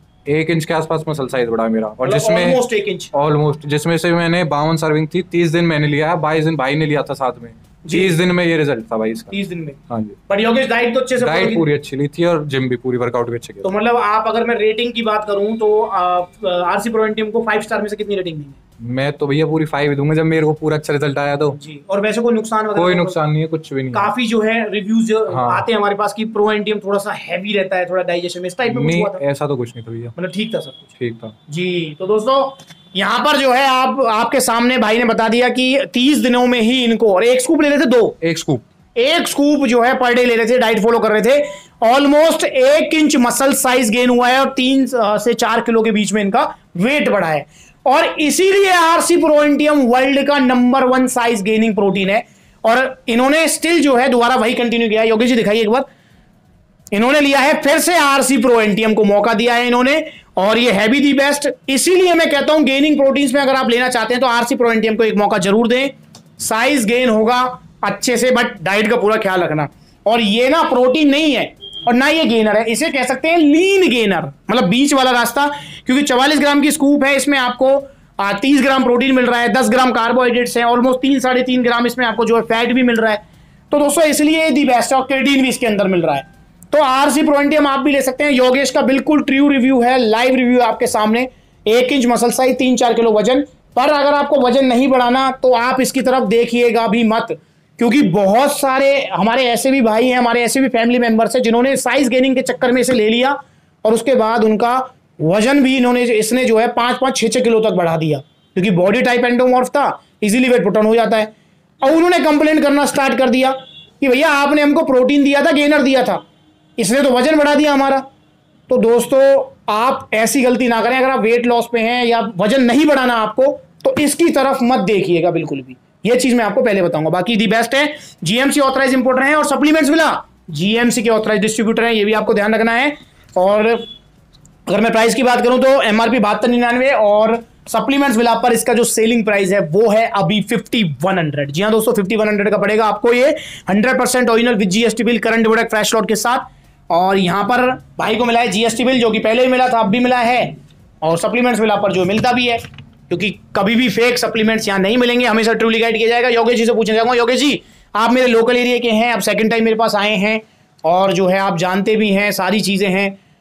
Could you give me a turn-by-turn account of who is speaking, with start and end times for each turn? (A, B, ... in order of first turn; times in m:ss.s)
0:00.3-0:02.6 A
0:02.0-0:03.1 B
0:03.1-0:09.3 A
0:07.8-0:08.2 B
0:09.3-0:11.6 B
0:09.9-0:10.2 A
0:11.2-0:13.8 A
0:13.6-0:18.6 B
0:18.8-0:21.6 A
0:21.5-0:23.2 B
0:22.7-0:24.1 A
0:23.9-0:29.2 B
0:25.3-0:25.7 A
0:28.7-0:30.1 A
0:30.2-0:30.9 B
0:31.0-0:31.3 A
0:31.5-0:38.2 B
0:38.2-0:38.6 A
0:39.0-0:55.9 B
0:56.9-1:56.2 B
1:56.8-1:58.0 B
1:58.7-2:13.9 B
2:14.7-2:43.2 B